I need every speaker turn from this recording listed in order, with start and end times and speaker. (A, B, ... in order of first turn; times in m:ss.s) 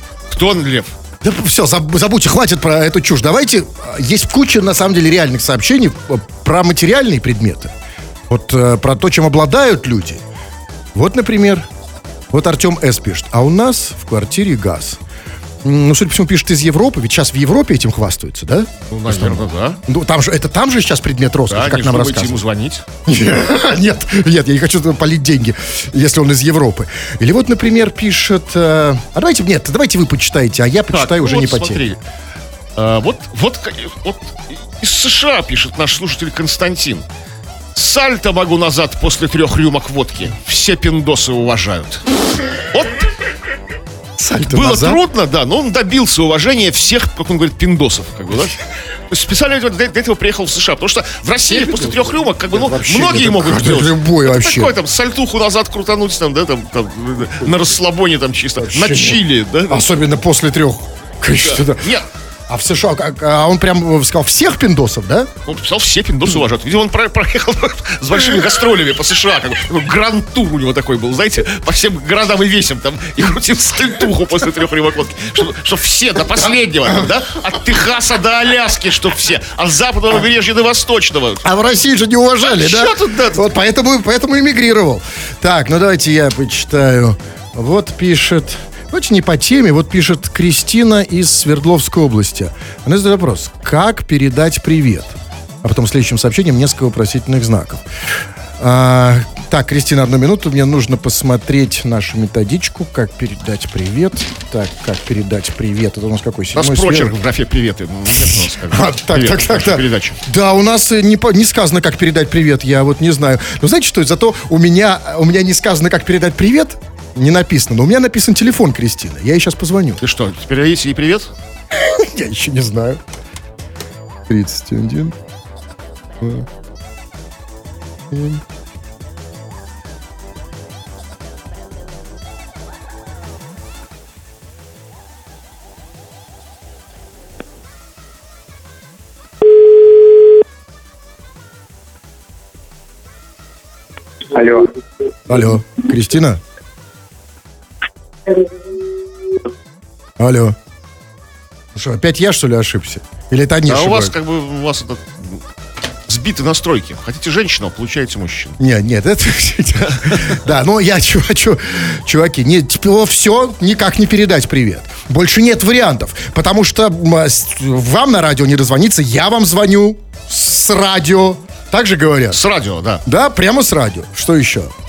0:00.3-0:00.9 A
0:01.2-0:07.7 B
0:08.3-0:10.2 B
0:10.9-0:11.7 B
0:12.3-0:15.0 B
0:15.6-0:22.4 B
0:18.9-0:19.8 A
0:21.5-0:22.9 A
0:23.1-0:31.8 B
0:30.9-0:32.0 A
0:32.8-0:37.0 A
0:37.7-0:42.0 A
0:42.6-0:43.1 A
0:44.2-0:45.0 B
0:44.5-0:48.6 A
0:49.1-0:59.9 A
0:51.5-0:54.8 B
0:58.6-1:01.9 B
1:01.4-1:02.1 A
1:02.5-1:05.3 B
1:05.4-1:21.4 A
1:21.4-1:37.8 B
1:22.4-1:23.5 A
1:38.6-1:47.1 B
1:46.5-1:50.2 A
1:48.6-2:00.0 B
2:00.0-2:01.3 A
2:01.7-2:03.0 B
2:04.3-2:05.1 B
2:06.2-2:06.5 B
2:08.1-2:08.4 B
2:25.3-2:26.4 B
2:30.2-2:30.6 B
2:31.8-2:34.1 B
2:33.7-2:35.4 A
2:36.1-2:38.6 A
2:38.6-2:52.4 B
2:40.0-2:40.3 A
2:52.3-2:53.0 A
2:53.0-2:54.7 B